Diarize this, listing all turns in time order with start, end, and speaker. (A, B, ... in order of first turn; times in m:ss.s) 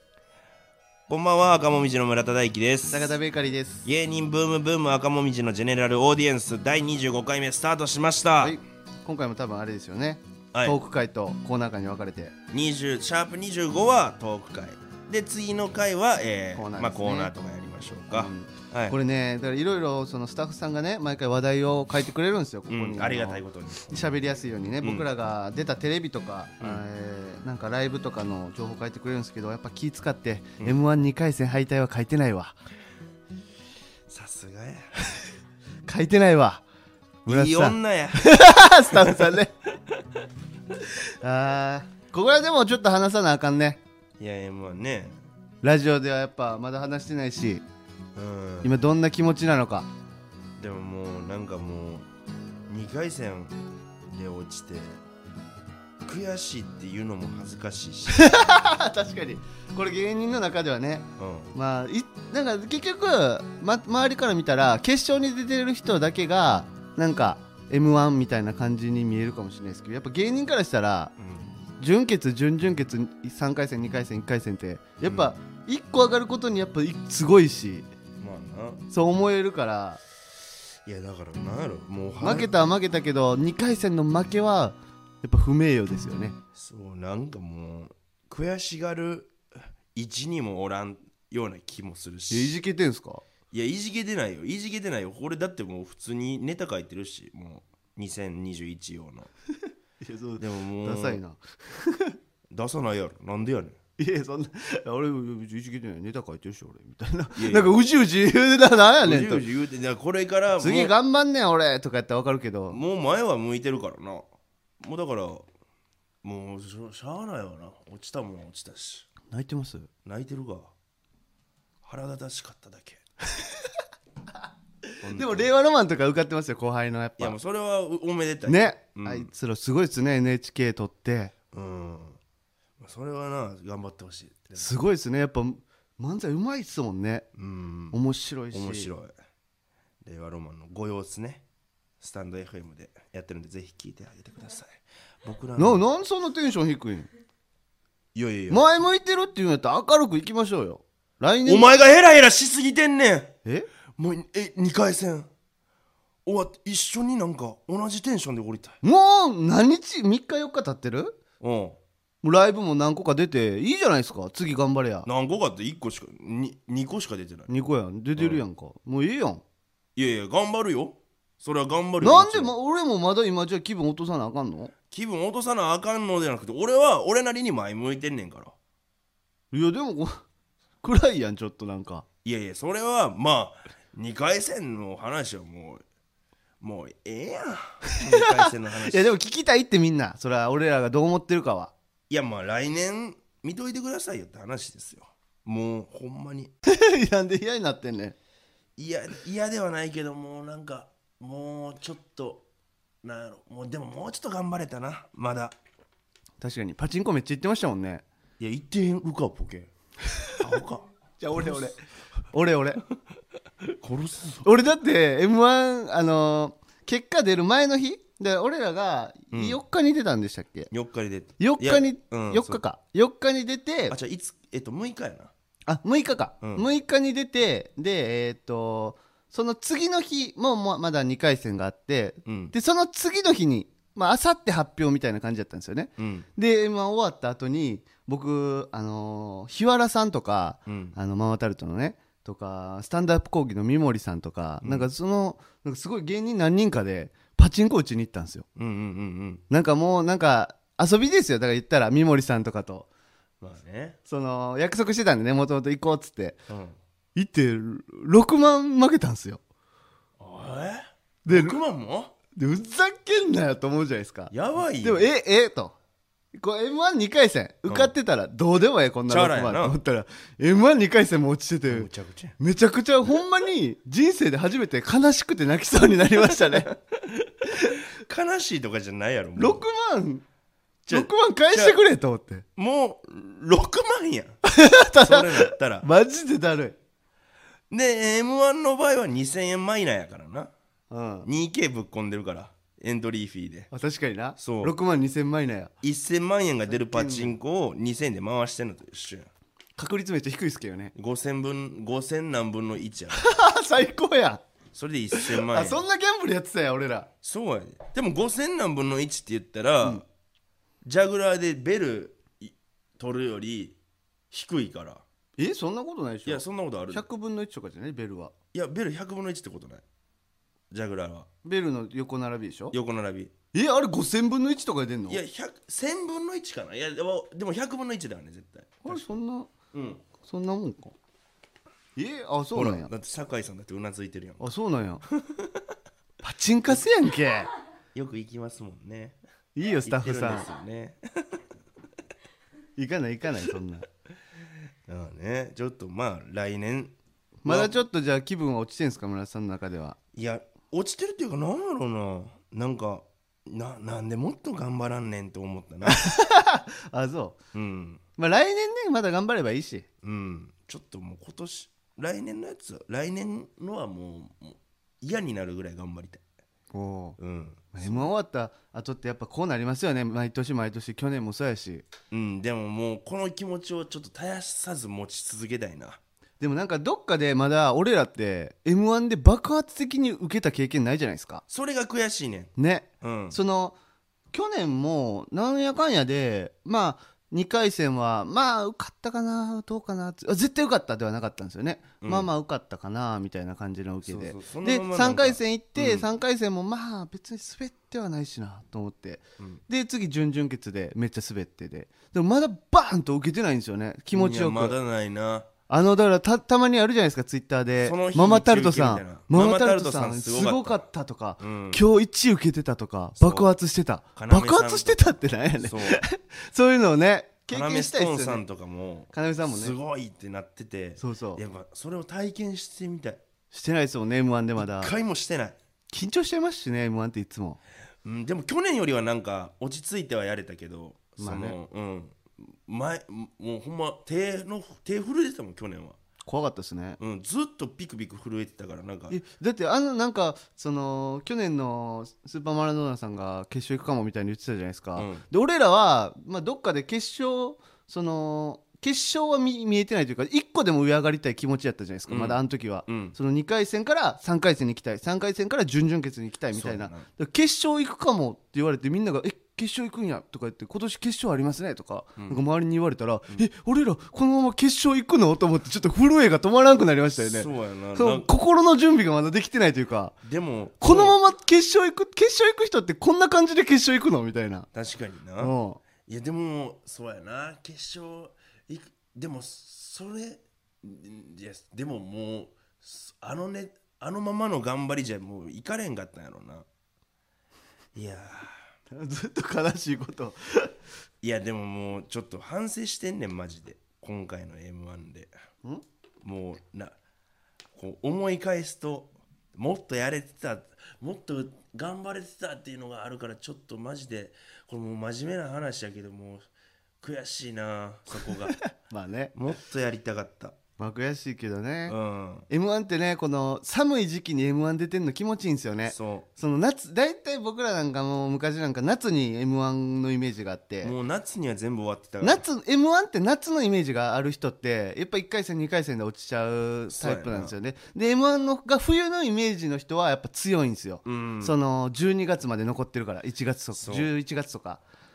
0:01.1-0:03.1 A
0:02.9-0:03.9 B
0:03.8-0:08.6 A
0:08.4-0:12.3 B
0:12.5-0:19.0 A
0:16.6-0:17.3 B
0:18.1-0:32.6 B
0:22.7-0:24.0 A
0:24.8-0:25.1 A
0:34.1-0:34.9 A
0:35.9-0:36.6 B
0:37.2-0:38.3 A
0:37.3-0:39.5 B
0:38.9-0:39.4 A
0:41.2-0:43.8 B
0:44.2-0:45.2 A
0:45.6-0:47.6 B
0:48.2-0:48.7 A
0:48.6-0:49.9 B
0:50.6-0:52.1 A
0:52.7-0:53.6 A
0:54.1-0:55.0 A
0:56.0-0:58.2 A
0:58.1-1:11.1 B
1:01.2-1:01.5 A
1:11.2-1:11.5 A
1:11.8-1:17.9 B
1:15.0-1:15.3 A
1:18.2-1:18.8 A
1:18.9-1:20.0 B
1:20.8-1:22.5 A
1:22.2-1:26.4 B
1:26.6-1:29.4 A
1:29.9-1:32.6 A
1:32.3-1:33.2 B
1:33.5-1:39.3 A
1:40.0-1:42.2 B
1:40.4-1:41.2 A
1:42.5-1:43.8 A
1:44.0-1:49.4 B
1:47.4-1:47.8 A
1:49.0-1:50.9 A
1:50.6-1:52.8 B
1:52.7-1:54.2 A
1:54.8-1:55.5 A
1:56.2-1:59.1 A
1:59.3-1:59.9 B
2:00.0-2:00.7 A
2:01.8-2:03.0 A
2:03.3-2:03.8 B
2:05.0-2:07.4 B
2:05.0-2:05.5 A
2:07.2-2:09.3 A
2:08.5-2:11.3 B
2:11.5-2:12.2 A
2:12.8-2:14.7 A
2:14.6-2:17.2 B
2:17.4-2:18.0 A
2:17.9-2:18.9 B
2:18.5-2:19.1 A
2:20.0-2:21.4 A
2:22.0-2:25.8 A
2:25.6-2:27.1 B
2:28.2-2:28.6 A
2:28.5-2:31.7 B
2:31.4-2:33.4 A
2:34.0-2:35.3 A
2:36.2-2:38.8 A
2:38.8-2:41.2 B
2:41.4-2:41.8 A
2:42.2-2:45.1 B
2:45.0-2:47.5 A
2:47.5-2:49.4 B
2:48.2-2:48.4 A
2:50.0-2:52.5 A
2:52.0-2:54.7 B
2:54.9-2:58.6 A
2:59.5-3:00.2 B
3:00.8-3:02.0 B
3:02.2-3:05.8 A
3:06.6-3:09.1 A
3:07.9-3:11.7 B
3:12.1-3:16.5 A
3:16.6-3:18.2 B
3:18.8-3:22.5 A
3:23.0-3:25.6 A
3:26.4-3:28.0 B
3:28.4-3:29.7 A
3:30.1-3:30.4 B
3:30.4-3:30.9 A
3:31.2-3:31.8 B
3:31.4-3:31.6 A
3:32.3-3:32.8 B
3:33.6-3:34.5 A
3:34.4-3:40.7 B
3:39.3-3:39.6 A
3:40.7-3:42.6 A
3:41.4-3:44.0 B
3:43.9-3:45.3 A
3:45.7-4:08.5 B
3:52.2-3:52.5 A
3:56.0-3:56.2 A
4:00.7-4:01.0 A
4:04.6-4:04.9 A
4:08.6-4:09.4 A
4:09.5-4:12.9 B
4:13.4-4:14.0 A
4:14.1-4:16.4 B
4:16.5-4:16.8 A
4:17.2-4:19.4 B
4:20.2-4:22.1 A
4:21.2-4:21.6 B
4:22.4-4:25.8 B
4:24.3-4:25.1 A
4:26.4-4:36.7 B
4:29.1-4:29.8 A
4:31.7-4:32.4 A
4:36.3-4:39.6 A
4:39.4-4:40.2 B
4:40.9-4:41.8 A
4:40.9-4:42.4 B
4:42.6-4:44.4 A
4:44.4-4:46.8 B
4:45.0-4:45.9 A
4:47.7-4:50.5 A
4:50.9-4:51.3 B
4:51.2-4:53.7 A
4:53.7-4:55.7 B
4:54.4-4:54.7 A
4:55.8-4:59.3 A
4:56.7-4:57.4 B
4:59.8-5:00.9 B
5:01.0-5:03.2 A
5:03.1-5:04.4 B
5:04.7-5:05.8 A
5:05.1-5:07.1 B
5:07.2-5:10.0 A
5:10.8-5:13.8 A
5:14.3-5:15.0 A
5:15.4-5:18.3 B
5:16.2-5:17.0 A
5:18.5-5:19.8 A
5:20.7-5:21.3 A
5:21.4-5:22.8 B
5:22.7-5:23.3 A
5:23.5-5:25.2 B
5:25.1-5:29.0 A
5:28.8-5:29.5 B
5:29.7-5:30.0 A
5:30.2-5:31.0 B
5:32.0-5:32.9 B
5:32.5-5:34.5 A
5:34.4-5:35.0 B
5:35.1-5:35.7 A
5:36.2-5:37.5 B
5:37.9-5:39.2 A
5:39.5-5:40.5 B
5:39.8-5:41.4 A
5:42.8-5:43.9 B
5:44.9-5:46.9 A
5:47.4-5:50.0 B
5:47.5-5:47.7 A
5:50.1-5:56.0 A
5:55.8-5:57.4 B
5:57.5-5:58.0 A
5:58.2-5:59.9 B
6:00.0-6:06.2 A
6:06.7-6:07.2 B
6:07.2-6:08.1 A
6:07.7-6:11.8 B
6:12.1-6:16.0 A
6:16.4-6:21.4 B
6:21.5-6:23.4 A
6:22.6-6:23.8 B
6:24.3-6:44.8 B
6:32.0-6:32.3 A
6:34.0-6:36.1 A
6:44.1-6:45.5 A
6:45.7-6:58.4 B
6:47.8-6:50.8 A
6:51.4-6:51.8 A
6:53.2-6:53.5 A
6:54.2-6:56.0 A
6:57.5-7:03.2 A
6:59.1-6:59.8 B
7:01.0-7:01.4 B
7:03.5-7:04.9 B
7:04.6-7:05.6 A
7:05.9-7:07.6 B
7:08.0-7:16.0 A
7:11.2-7:11.6 B
7:16.2-7:17.0 B
7:17.0-7:19.2 A
7:19.1-7:50.2 B
7:25.0-7:25.2 A
7:32.1-7:33.2 A
7:36.5-7:37.0 A
7:47.2-7:48.3 A
7:50.2-7:51.2 A
7:50.8-7:54.7 B
7:54.7-8:06.7 A
7:55.4-7:55.8 B
8:07.9-8:08.6 A
8:08.9-8:10.7 B
8:11.2-8:15.3 A
8:16.2-8:17.0 A
8:17.8-8:26.5 A
8:27.0-8:28.6 A
8:28.2-8:29.3 B
8:29.4-8:30.6 A
8:30.8-8:32.0 B
8:31.9-8:32.5 A
8:32.5-8:40.9 B
8:35.9-8:36.3 A
8:40.8-8:42.4 A
8:42.2-8:54.8 B
8:46.9-8:47.5 A
8:51.0-8:51.5 A
8:53.8-8:54.1 A